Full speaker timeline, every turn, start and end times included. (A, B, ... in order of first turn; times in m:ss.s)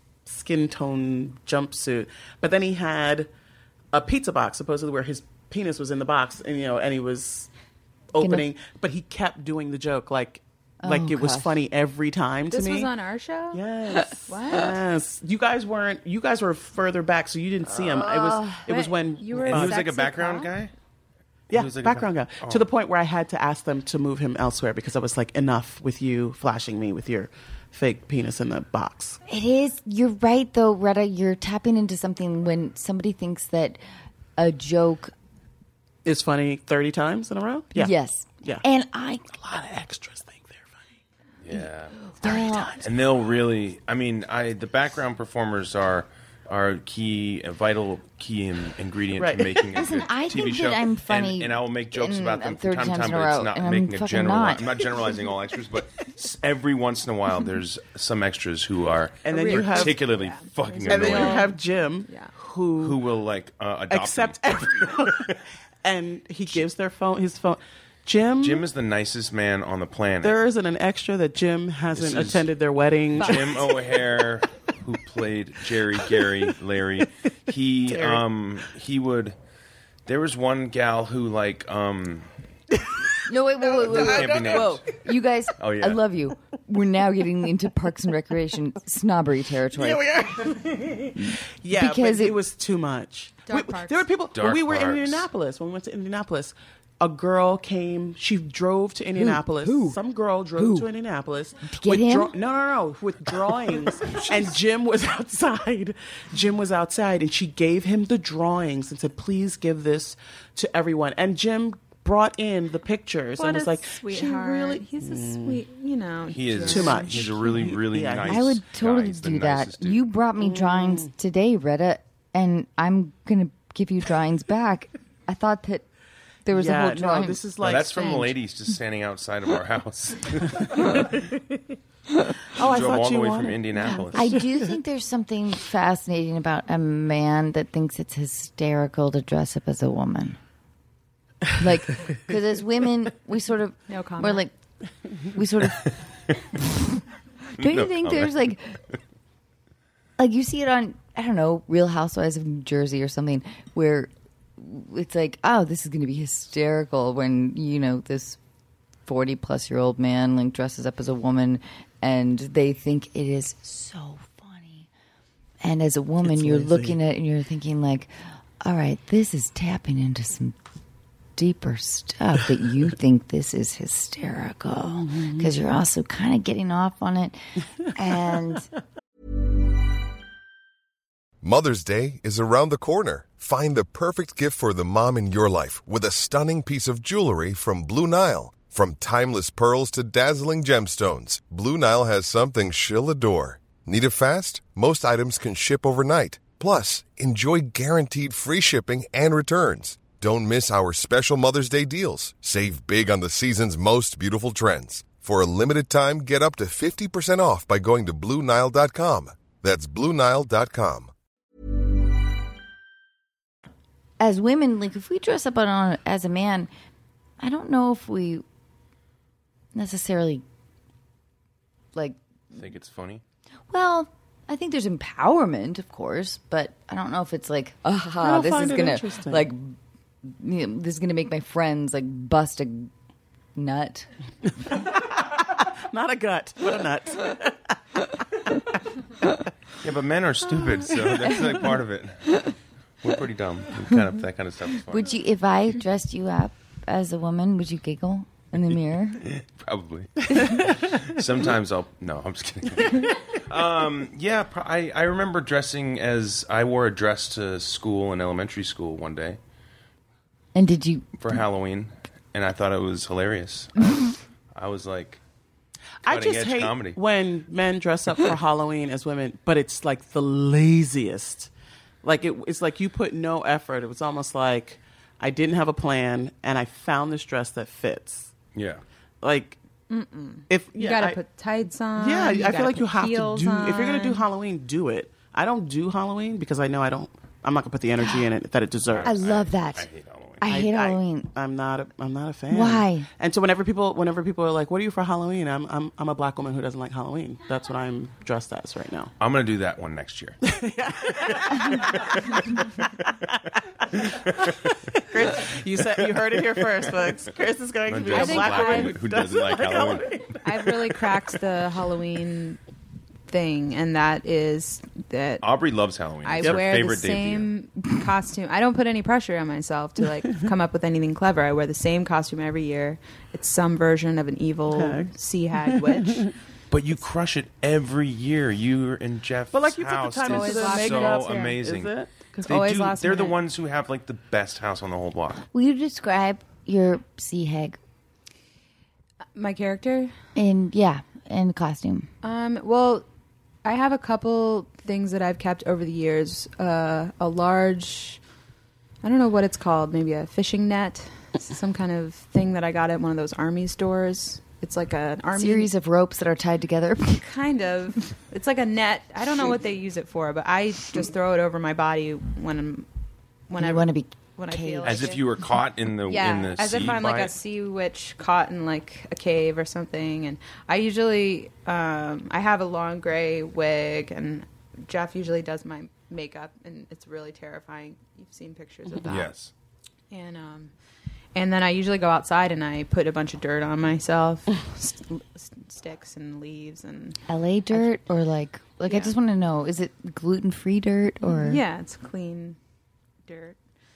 0:00.3-0:03.3 A
0:03.9-0:07.5 A
0:08.1-0:12.9 A
0:08.2-0:08.5 B
0:10.8-0:11.6 B
0:12.5-0:13.6 C
0:13.5-0:19.8 A
0:14.3-0:14.7 C
0:17.7-0:18.6 B
0:18.7-0:20.5 C
0:19.5-0:20.7 D
0:21.5-0:29.2 A
0:21.5-0:22.7 D
0:29.3-0:33.8 B
0:34.4-0:35.1 B
0:36.0-0:38.6 A
0:37.8-0:39.3 B
0:39.3-0:40.8 A
0:41.4-0:42.0 D
0:42.0-0:42.8 B
0:42.2-0:42.9 A
0:42.8-1:01.5 D
0:49.2-0:49.6 A
0:49.7-0:54.9 B
0:59.2-1:00.0 A
0:59.3-1:02.3 C
1:00.9-1:03.0 A
1:02.8-1:05.2 D
1:03.9-1:08.6 A
1:08.4-1:10.4 D
1:10.2-1:13.8 A
1:11.9-1:12.5 D
1:13.2-1:19.4 D
1:13.2-1:13.5 C
1:17.9-1:18.2 A
1:20.1-1:22.3 D
1:22.8-1:24.8 A
1:23.3-1:30.1 B
1:23.8-1:24.9 D
1:25.6-1:26.0 D
1:29.7-1:55.6 A
1:31.2-1:32.4 B
1:33.5-1:34.1 C
1:34.3-1:35.3 D
1:39.2-1:40.0 B
1:40.6-1:40.9 B
1:41.6-1:42.4 B
1:44.1-1:44.5 D
1:53.4-1:57.2 C
1:56.3-2:00.0 D
1:56.6-1:58.5 A
1:58.2-2:05.9 B
2:00.4-2:01.1 A
2:06.4-2:07.4 B
2:06.5-2:08.4 A
2:07.6-2:11.2 D
2:12.5-2:14.5 A
2:12.6-2:14.4 D
2:14.1-2:20.4 B
2:21.6-2:24.5 B
2:23.9-2:24.4 C
2:25.2-2:26.0 B
2:27.6-2:28.4 D
2:27.6-2:28.8 B
2:30.2-2:38.4 B
2:39.1-2:44.9 B
2:45.6-2:50.6 B
2:46.2-2:47.0 A
2:51.4-2:58.7 B
2:55.1-2:55.5 A
3:01.4-3:31.1 E
3:34.2-3:36.7 B
3:37.4-3:38.4 B
3:39.7-3:40.4 B
3:42.5-3:43.2 D
3:43.7-3:49.8 B
3:48.2-3:49.5 A
3:50.3-3:52.9 B
3:53.6-3:54.1 B
3:54.7-3:57.8 A
3:59.8-4:05.1 D
4:04.9-4:09.3 B
4:09.3-4:19.4 D
4:20.6-4:21.1 B
4:21.2-4:25.2 D
4:26.0-4:31.5 A
4:26.1-4:27.0 D
4:32.0-4:38.3 A
4:38.6-4:38.8 D
4:39.2-4:39.6 A
4:39.9-4:44.2 C
4:40.5-4:41.2 A
4:42.0-4:49.1 A
4:48.9-4:50.5 D
4:49.0-4:49.9 B
4:50.4-4:51.3 B
4:50.5-4:59.1 A
4:52.5-4:53.1 B
4:59.2-5:00.4 D
5:00.5-5:02.4 A
5:04.1-5:11.0 A
5:07.9-5:10.2 D
5:08.1-5:09.0 C
5:10.4-5:12.6 C
5:13.3-5:15.4 C
5:15.4-5:17.5 D
5:16.2-5:26.3 C
5:24.7-5:25.1 A
5:25.7-5:26.3 A
5:26.7-5:31.9 D
5:29.5-5:32.5 A
5:30.3-5:31.6 C
5:32.4-5:33.4 C
5:32.4-5:35.4 D
5:35.5-5:37.8 B
5:39.4-5:40.1 C
5:40.4-5:42.1 B
5:42.2-5:43.0 C
5:43.6-5:48.2 C
5:49.0-5:55.7 C
5:55.3-5:57.3 B
5:57.2-6:02.9 C
6:03.5-6:05.2 C
6:03.6-6:05.2 B
6:04.8-6:07.3 D
6:06.1-6:19.3 C
6:19.0-6:19.5 D
6:20.1-6:20.7 C
6:21.4-6:27.2 C
6:27.3-6:31.6 B
6:28.9-6:29.1 C
6:31.2-6:32.6 C
6:33.3-6:33.6 C